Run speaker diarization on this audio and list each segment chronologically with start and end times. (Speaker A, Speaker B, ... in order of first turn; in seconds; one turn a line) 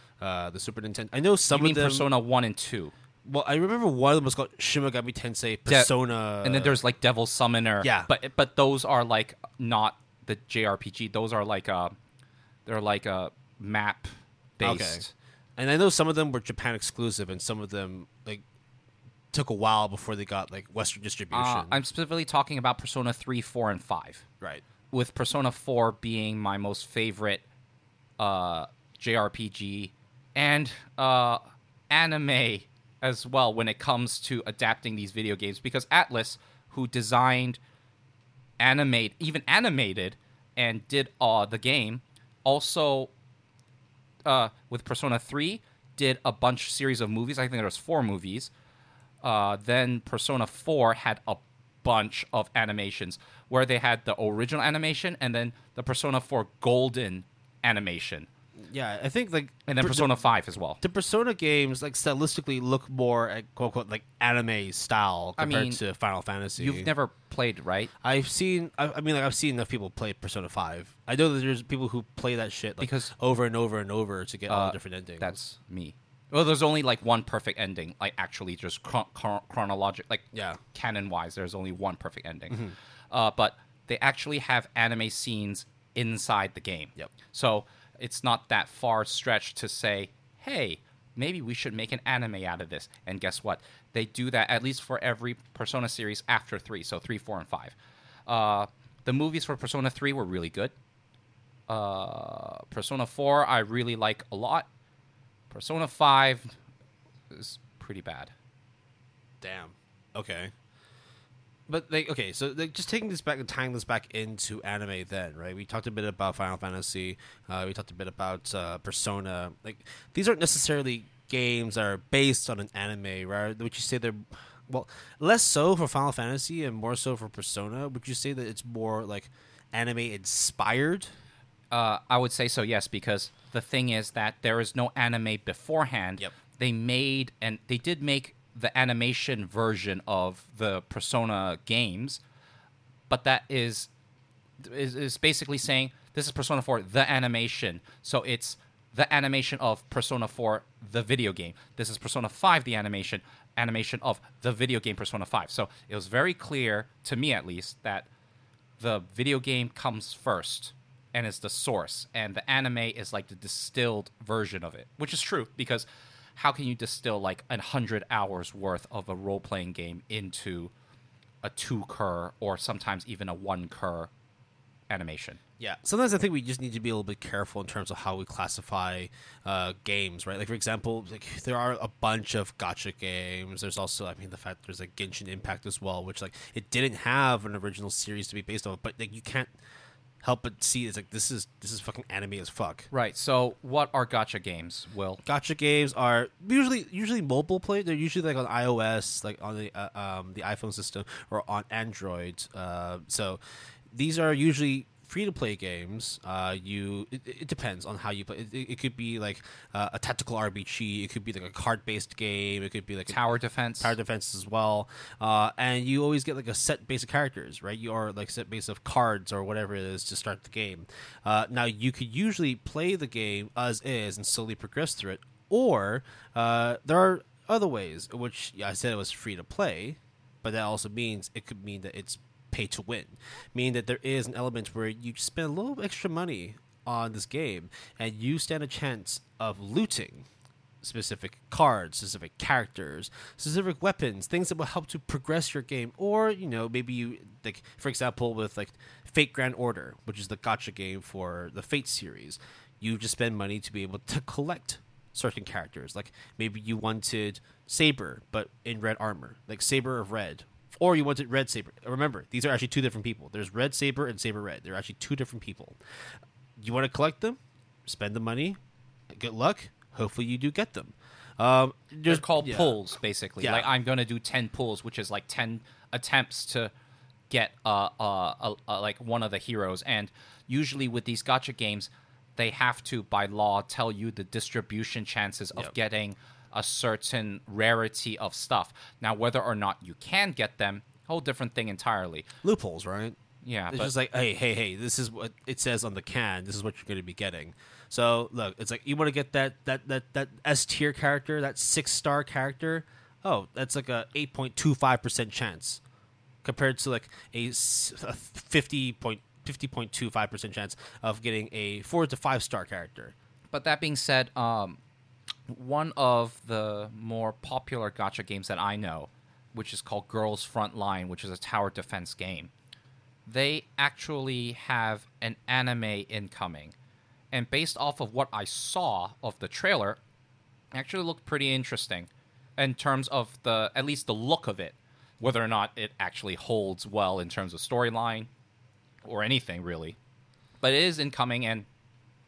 Speaker A: 0.2-2.1
Speaker B: 1.5-2.9
Speaker A: 3.2-6.8
Speaker B: 6.4-11.9
Speaker A: 7.8-8.1
Speaker B: 12.7-15.1
Speaker A: 14.6-15.0
Speaker A: 15.6-18.4
Speaker A: 19.3-21.8
Speaker B: 21.3-24.2
Speaker B: 24.9-27.4
Speaker B: 28.2-37.6
Speaker B: 38.6-43.1
Speaker B: 44.2-48.5
Speaker B: 49.2-58.3
Speaker A: 58.6-60.1
Speaker B: 59.7-60.8
Speaker A: 60.8-66.9
Speaker B: 65.4-65.8
Speaker B: 66.6-67.9
Speaker A: 68.0-75.4
Speaker B: 72.8-73.1
Speaker B: 74.5-97.7
Speaker A: 80.3-80.6
Speaker A: 82.5-82.7
Speaker B: 98.3-100.7
Speaker B: 101.7-104.7
Speaker B: 105.5-106.5
Speaker B: 107.3-108.3
Speaker A: 109.4-110.5
Speaker A: 111.7-131.1
Speaker B: 131.7-142.2
Speaker B: 143.1-143.9
Speaker B: 144.6-158.1
Speaker B: 158.8-170.7
Speaker B: 171.4-174.1
Speaker B: 174.9-175.4
Speaker A: 175.6-189.5
Speaker A: 190.2-192.9
Speaker B: 192.9-195.2
Speaker A: 195.2-203.4
Speaker A: 203.9-213.2
Speaker B: 213.1-213.9
Speaker A: 213.8-240.2
Speaker A: 240.8-265.8
Speaker A: 266.6-268.6
Speaker A: 269.1-272.8
Speaker B: 272.1-276.7
Speaker A: 273.4-273.7
Speaker B: 277.3-292.2
Speaker A: 292.4-293.2
Speaker B: 293.4-293.9
Speaker A: 293.7-305.8
Speaker A: 306.4-313.1
Speaker B: 313.5-314.8
Speaker B: 315.5-322.5
Speaker B: 323.2-326.7
Speaker B: 327.3-330.0
Speaker B: 330.7-338.3
Speaker B: 339.0-340.0
Speaker B: 340.6-341.7